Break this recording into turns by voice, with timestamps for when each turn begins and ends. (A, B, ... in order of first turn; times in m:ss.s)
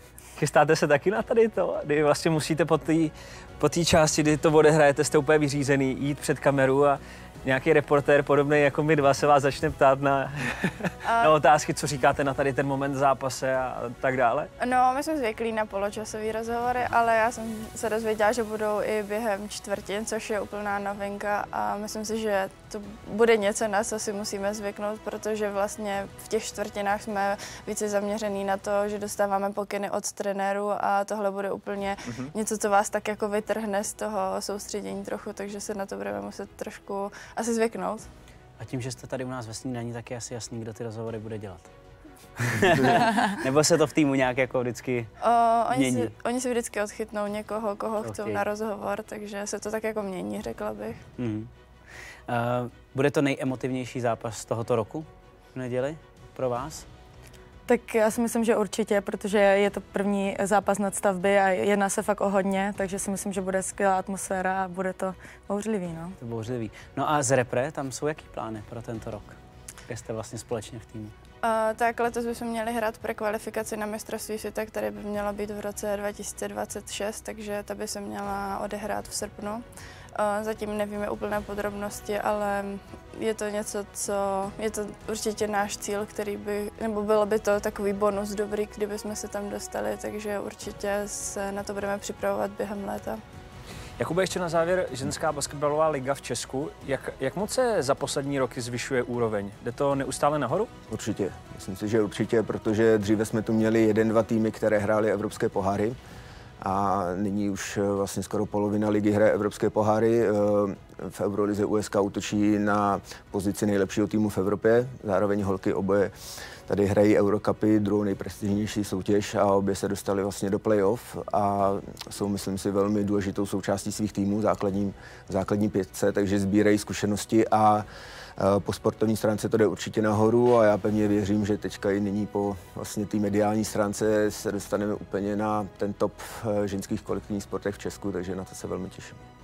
0:00.4-0:14.5 A
0:11.0-0:11.3 B
0:14.6-0:38.1 B
0:32.1-0:32.3 A
0:38.6-0:41.7 C
0:42.4-0:45.1 C
0:45.2-0:51.0 B
0:45.7-0:46.1 C
0:48.0-0:48.4 C
0:51.2-0:51.5 C
0:52.3-0:56.8 C
0:57.7-1:06.2 D
1:06.2-1:09.4 C
1:09.9-1:11.1 C
1:11.4-1:19.6 B
1:20.1-1:33.2 B
1:34.0-1:40.7 A
1:40.9-1:46.0 E
1:46.6-1:56.1 E
1:56.7-2:07.8 E
2:08.4-2:19.2 E